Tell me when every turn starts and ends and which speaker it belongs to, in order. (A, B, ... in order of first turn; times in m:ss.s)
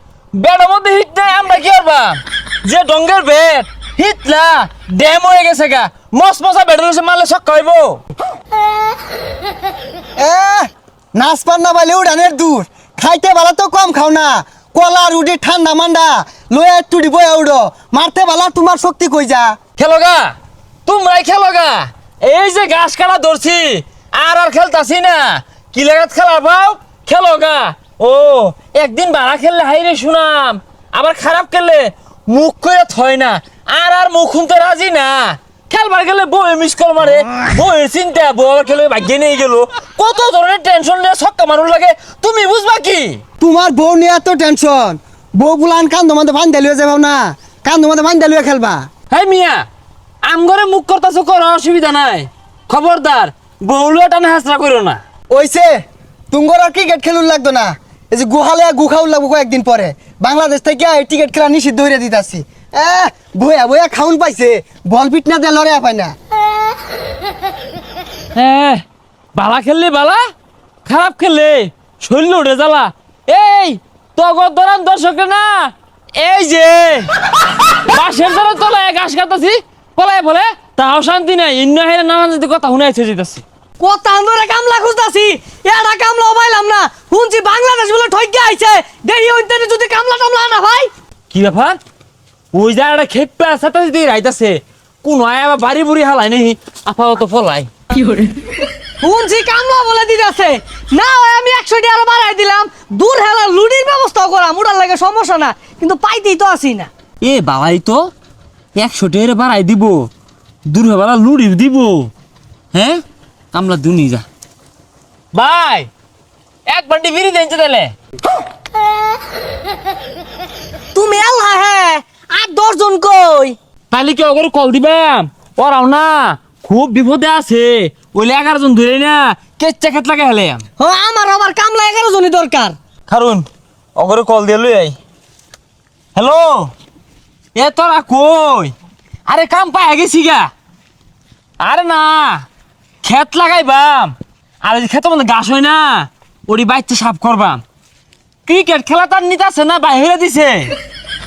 0:00.4-0:08.0 A
0:10.2-0:19.6 B
0:19.8-0:20.3 A
0:20.8-0:43.2 A
0:43.4-0:48.8 B
0:49.1-0:49.6 A
0:50.2-0:55.0 A
0:55.3-0:55.8 B
0:56.3-1:06.1 B
1:08.3-1:08.8 A
1:09.3-1:10.2 A
1:10.8-1:17.1 A
1:17.7-1:23.4 A
1:23.8-1:30.9 C
1:31.3-1:31.8 A
1:32.5-1:37.7 A
1:39.0-1:46.9 C
1:47.2-1:48.1 A
1:48.8-1:50.1 A
1:50.7-1:52.1 A
1:52.7-1:53.0 A
1:53.5-1:54.2 A
1:55.3-1:55.9 A
1:56.7-1:57.9 A
2:00.9-2:03.6 C
2:03.9-2:10.6 A
2:10.8-2:12.8 C
2:13.1-2:15.0 A
2:16.1-2:16.7 A
2:17.5-2:18.7 A
2:19.3-2:20.5 A
2:21.6-2:22.4 A
2:23.0-2:27.6 A
2:28.4-2:30.7 A